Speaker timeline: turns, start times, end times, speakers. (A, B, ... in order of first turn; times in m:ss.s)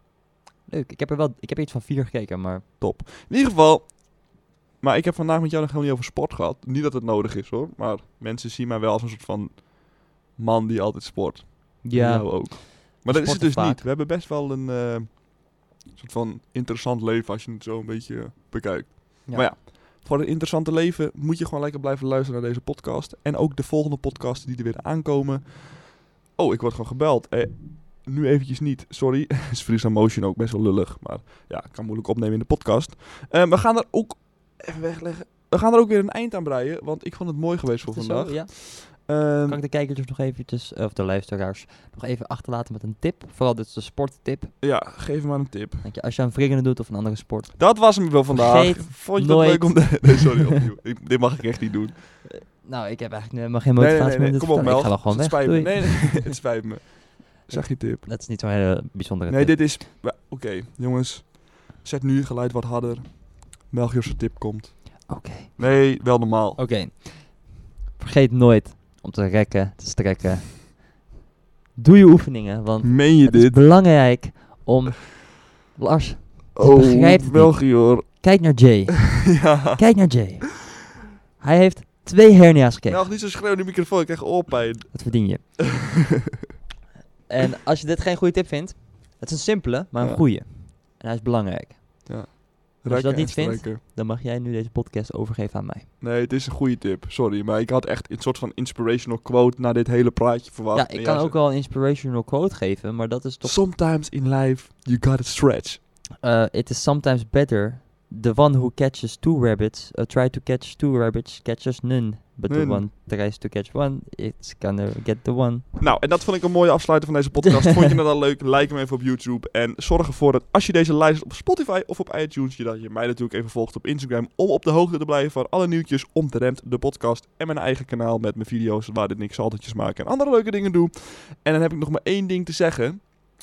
0:00.7-0:02.7 A
0:02.8-0:39.6 B
0:11.8-0:13.8 A
0:19.2-0:19.5 A
0:37.8-0:44.5 A
0:44.6-0:45.9 B
0:45.8-0:50.6 A
0:47.6-0:52.2 B
0:52.5-0:56.3 A
0:53.8-0:58.1 B
0:57.5-0:59.7 A
0:59.3-1:06.6 B
1:05.1-1:06.0 A
1:06.6-1:11.0 A
1:11.8-1:23.1 A
1:12.8-1:13.7 B
1:16.5-1:18.3 B
1:19.2-1:20.2 B
1:22.9-1:25.9 B
1:24.9-1:25.9 A
1:27.3-1:35.9 A
1:30.0-1:30.3 B
1:32.0-1:33.8 B
1:36.0-1:41.4 B
1:40.7-1:43.7 A
1:43.4-1:45.8 B
1:46.2-1:55.7 A
1:52.5-1:52.8 B
1:55.8-2:13.0 B